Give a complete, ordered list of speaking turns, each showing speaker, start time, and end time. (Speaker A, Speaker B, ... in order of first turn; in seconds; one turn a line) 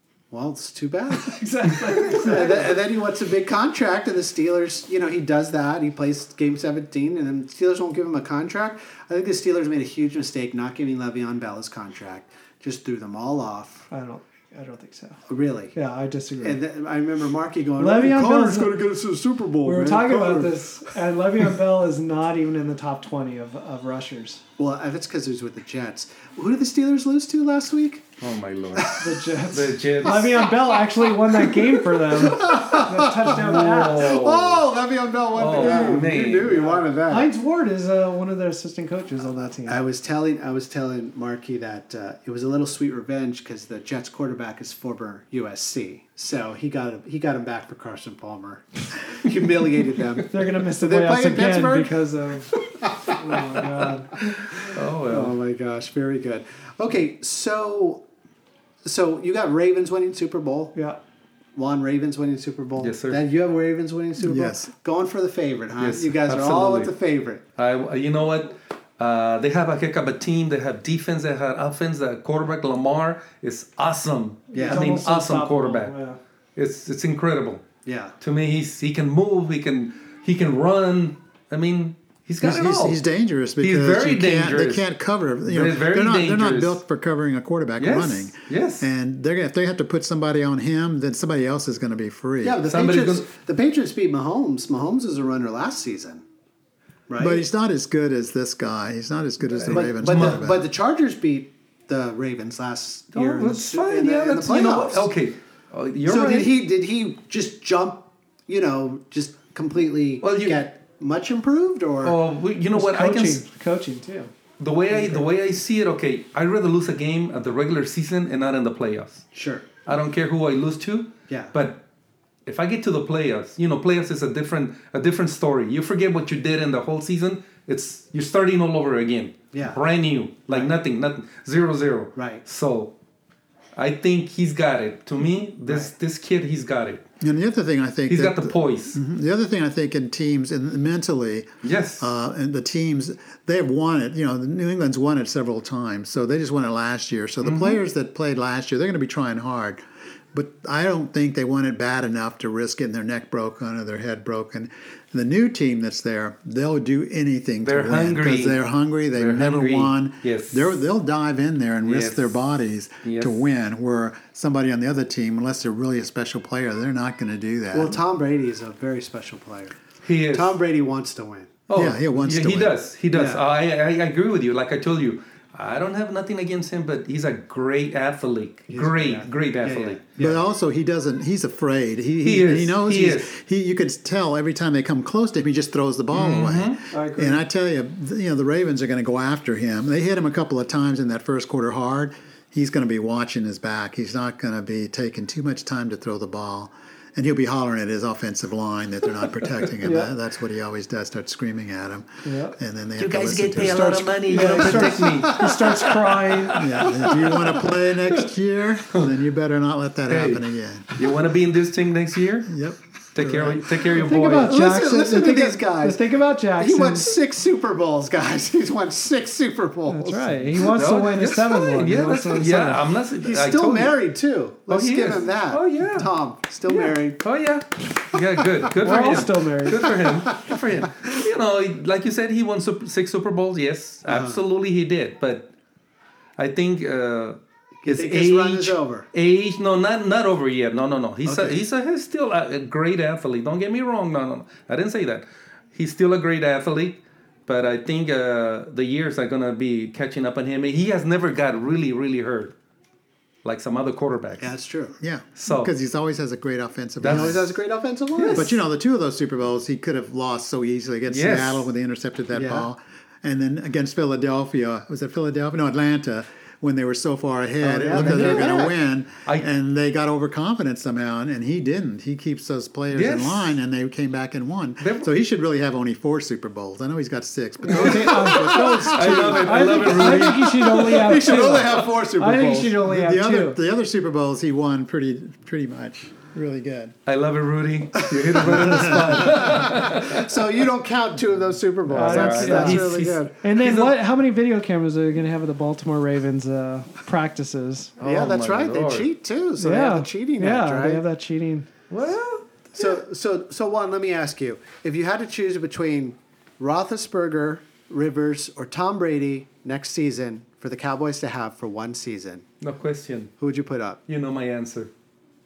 Speaker A: 0.3-13.9
Speaker B: 1.1-2.8
Speaker B: 13.9-15.2
Speaker A: 15.3-15.8
Speaker B: 15.7-16.6
Speaker A: 16.4-20.6
Speaker B: 17.8-18.8
Speaker B: 19.6-24.4
Speaker A: 24.6-28.1
Speaker C: 28.2-30.5
Speaker A: 28.8-29.1
Speaker B: 29.0-34.1
Speaker A: 32.1-37.3
Speaker C: 33.3-34.7
Speaker C: 35.3-36.7
Speaker B: 35.5-39.8
Speaker A: 39.6-52.0
Speaker B: 50.3-54.4
Speaker A: 52.9-53.6
Speaker C: 54.5-55.3
Speaker A: 55.0-58.0
Speaker A: 58.8-60.8
Speaker B: 60.7-61.0
Speaker A: 61.5-67.4
Speaker C: 62.8-63.2
Speaker D: 64.2-64.7
Speaker C: 65.8-66.9
Speaker C: 67.6-76.0
Speaker A: 74.5-74.9
Speaker B: 74.5-76.2
Speaker C: 76.5-77.7
Speaker A: 77.8-78.1
Speaker C: 78.2-83.0
Speaker D: 82.4-92.6
Speaker C: 83.6-84.8
Speaker C: 85.5-86.8
Speaker C: 87.8-88.8
Speaker A: 92.4-96.2
Speaker C: 92.7-93.2
Speaker A: 97.1-97.5
Speaker D: 97.2-100.7
Speaker C: 99.5-100.4
Speaker A: 99.7-105.1
Speaker C: 103.1-106.5
Speaker A: 106.0-112.2
Speaker C: 110.2-110.6
Speaker C: 112.0-113.4
Speaker B: 112.7-114.3
Speaker C: 114.6-119.2
Speaker B: 114.9-115.2
Speaker A: 119.3-119.7
Speaker C: 119.8-121.8
Speaker A: 121.3-121.5
Speaker C: 122.5-132.9
Speaker A: 129.5-129.8
Speaker A: 130.5-130.7
Speaker A: 132.2-132.4
Speaker C: 133.8-137.0
Speaker A: 135.7-135.9
Speaker D: 137.2-149.8
Speaker C: 138.1-139.0
Speaker C: 141.6-142.1
Speaker C: 147.4-147.8
Speaker D: 150.3-168.0
Speaker C: 157.6-158.6
Speaker C: 159.1-160.7
Speaker C: 161.8-162.4
Speaker C: 163.0-163.4
Speaker A: 167.7-169.8
Speaker C: 170.0-170.6
Speaker A: 170.3-171.6
Speaker C: 171.7-180.0
Speaker D: 171.7-172.8
Speaker A: 173.1-173.4
Speaker A: 178.7-180.4
Speaker D: 180.2-204.9
Speaker C: 182.2-183.3
Speaker C: 186.1-186.8
Speaker B: 186.9-187.4
Speaker B: 199.8-200.1
Speaker B: 202.2-202.6
Speaker C: 203.0-207.6
Speaker B: 204.2-207.0
Speaker A: 205.1-205.5
Speaker D: 206.5-211.0
Speaker C: 210.1-212.5
Speaker D: 212.5-213.6
Speaker C: 213.1-214.6
Speaker B: 213.8-217.1
Speaker A: 214.1-216.0
Speaker A: 216.6-220.7
Speaker B: 219.9-222.8
Speaker C: 220.7-224.0
Speaker A: 223.2-227.2
Speaker C: 224.7-226.1
Speaker C: 226.7-235.5
Speaker B: 228.8-230.1
Speaker A: 234.1-234.4
Speaker C: 236.4-252.5
Speaker A: 237.8-239.1
Speaker A: 241.2-241.6
Speaker C: 253.4-254.5
Speaker A: 254.4-254.9
Speaker D: 255.0-257.5
Speaker C: 255.4-255.7
Speaker C: 257.0-257.4
Speaker A: 257.0-258.5
Speaker C: 258.2-258.5
Speaker D: 258.3-279.8
Speaker C: 261.1-261.7
Speaker A: 262.3-262.7
Speaker A: 267.6-268.7
Speaker C: 267.9-268.7
Speaker C: 272.9-273.5
Speaker C: 274.8-275.1
Speaker B: 277.6-283.6
Speaker C: 277.7-281.2
Speaker A: 280.8-282.8
Speaker D: 282.8-286.9
Speaker C: 287.1-290.2
Speaker A: 288.4-293.3
Speaker D: 288.5-289.3
Speaker C: 291.9-294.0
Speaker B: 291.9-297.9
Speaker C: 298.0-299.1
Speaker A: 298.0-301.0
Speaker B: 299.6-301.7
Speaker C: 301.9-302.4
Speaker A: 302.7-312.4
Speaker C: 312.6-313.3
Speaker A: 313.4-314.0
Speaker C: 314.1-314.9